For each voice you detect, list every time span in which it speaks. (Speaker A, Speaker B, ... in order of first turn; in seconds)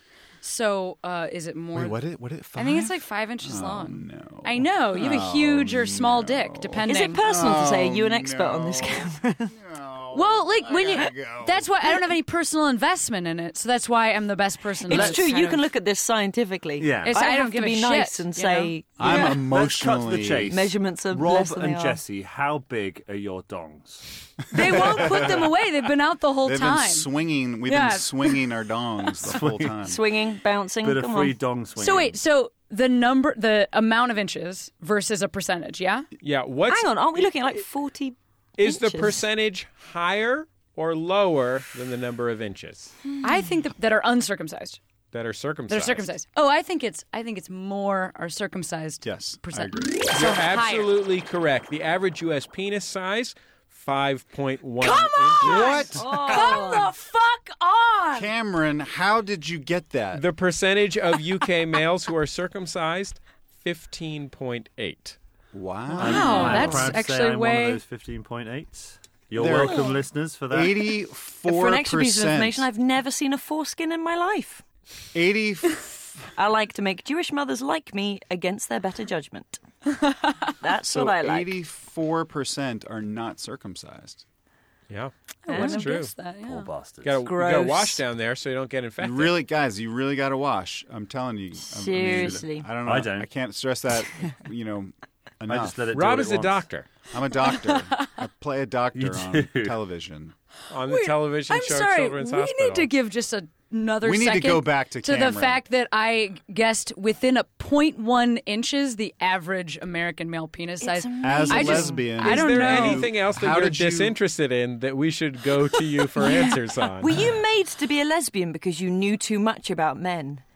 Speaker A: 0.4-2.0, 2.5-7.3, 10.1-15.6, 17.1-19.4, 24.5-27.1, 27.7-28.4, 31.8-36.1, 43.2-44.8, 45.7-50.9, 54.8-58.3, 66.0-67.8, 80.0-80.3, 85.5-86.7, 97.5-98.0, 100.9-113.1
Speaker B: 1.7-12.0, 19.0-20.6, 24.6-25.5, 26.4-30.0, 49.0-50.2, 55.4-56.9, 58.1-60.2, 65.5-67.0, 69.4-72.7, 75.1-76.1, 80.9-84.2, 89.0-95.8, 97.1-100.3, 104.0-105.6, 111.2-114.1
Speaker C: 6.9-9.5, 14.8-19.3, 20.5-22.0, 29.9-31.4, 36.7-39.2, 43.1-43.5, 55.6-56.9, 71.5-74.6, 76.4-79.6, 80.6-81.6, 85.5-85.9, 87.2-88.0, 91.6-92.7, 110.8-112.1, 116.2-120.4
Speaker D: 14.9-15.2, 16.8-17.2, 19.1-25.1, 29.2-29.8, 30.8-32.2, 66.0-70.9, 86.4-87.2, 92.1-93.3, 95.5-96.7, 99.0-99.8
Speaker E: 36.2-37.6, 38.6-42.9, 45.1-46.1, 50.1-55.9, 60.1-65.2, 84.9-86.1, 87.0-89.4, 95.9-96.9, 100.7-102.9, 112.2-117.2